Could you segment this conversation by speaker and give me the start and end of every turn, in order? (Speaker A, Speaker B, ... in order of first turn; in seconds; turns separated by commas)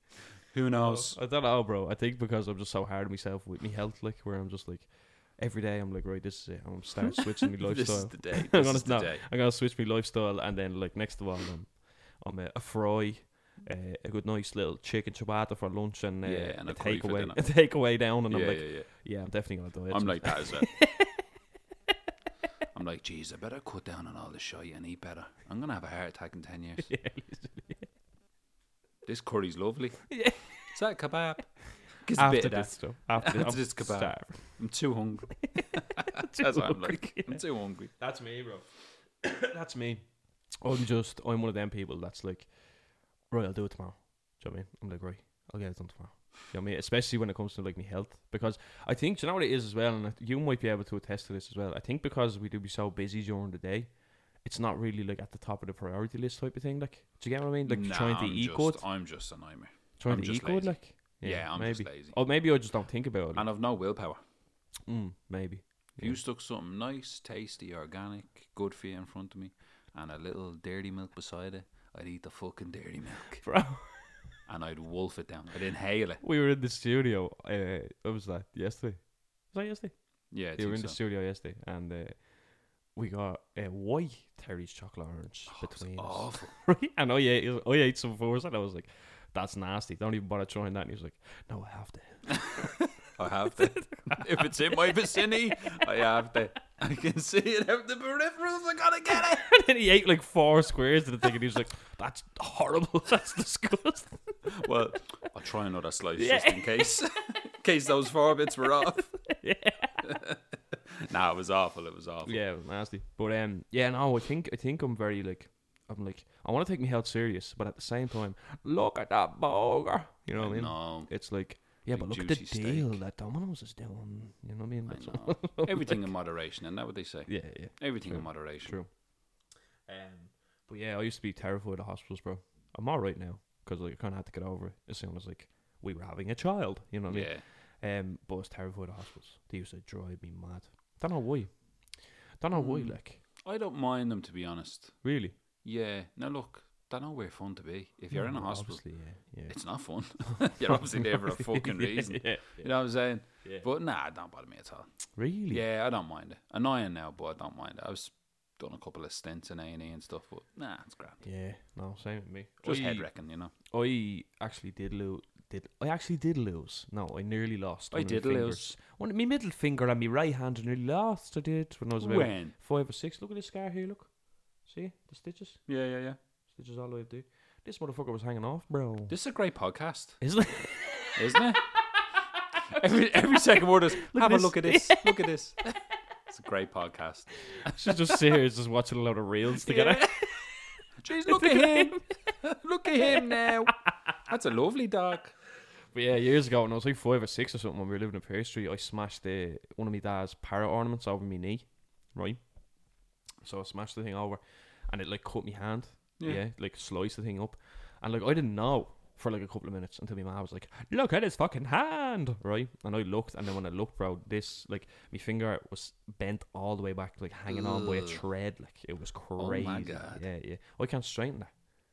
Speaker A: 0.5-1.2, Speaker B: 0.8-21.2, Speaker A: 7.6-9.2, Speaker A: 16.2-17.5, Speaker A: 18.3-18.9, Speaker A: 19.9-20.7, Speaker A: 22.7-26.9, Speaker B: 26.8-27.9, Speaker A: 29.0-30.1, Speaker B: 30.1-30.4, Speaker A: 30.7-31.5, Speaker A: 32.0-37.9, Speaker B: 32.1-34.5, Speaker B: 35.4-37.4, Speaker B: 38.0-38.7, Speaker B: 39.2-42.5, Speaker B: 43.3-53.9, Speaker B: 54.4-58.8, Speaker A: 57.6-62.1, Speaker B: 60.0-63.4, Speaker A: 63.3-64.2, Speaker B: 64.9-66.2, Speaker A: 66.0-73.4, Speaker B: 73.4-74.1, Speaker A: 74.5-76.2, Speaker B: 76.2-80.0, Speaker A: 80.3-81.0, Speaker B: 80.5-82.2, Speaker B: 82.9-92.6, Speaker A: 85.5-86.5, Speaker A: 92.3-99.4, Speaker B: 93.4-96.0, Speaker B: 99.1-104.4, Speaker A: 104.5-109.1, Speaker B: 106.2-107.0, Speaker B: 108.7-110.1, Speaker A: 110.0-110.4, Speaker A: 110.9-112.4, Speaker B: 112.2-126.1, Speaker A: 120.3-121.1, Speaker A: 121.7-123.0, Speaker A: 124.9-128.8, Speaker B: 127.3-128.9, Speaker B: 129.9-143.2, Speaker A: 137.1-137.4, Speaker A: 142.5-145.0, Speaker B: 145.0-145.3, Speaker A: 145.6-148.8, Speaker B: 148.1-149.5, Speaker A: 149.5-154.8, Speaker B: 150.3-152.7, Speaker B: 155.2-155.6, Speaker A: 155.5-161.2, Speaker B: 161.2-163.1, Speaker A: 162.6-163.5, Speaker B: 163.7-174.1, Speaker A: 167.9-168.7, Speaker A: 172.0-172.5, Speaker B: 174.6-175.6, Speaker A: 175.7-176.2, Speaker B: 176.5-179.1, Speaker A: 179.1-180.2, Speaker B: 180.2-181.7, Speaker A: 181.2-181.6, Speaker A: 182.6-185.6, Speaker B: 184.0-185.3, Speaker A: 186.3-188.2, Speaker B: 187.6-190.5, Speaker A: 189.6-190.3, Speaker A: 191.0-193.7, Speaker B: 191.3-192.0, Speaker B: 192.9-194.1, Speaker A: 194.3-195.3, Speaker B: 195.9-202.4, Speaker B: 203.4-221.5, Speaker A: 217.5-218.2, Speaker A: 219.4-220.2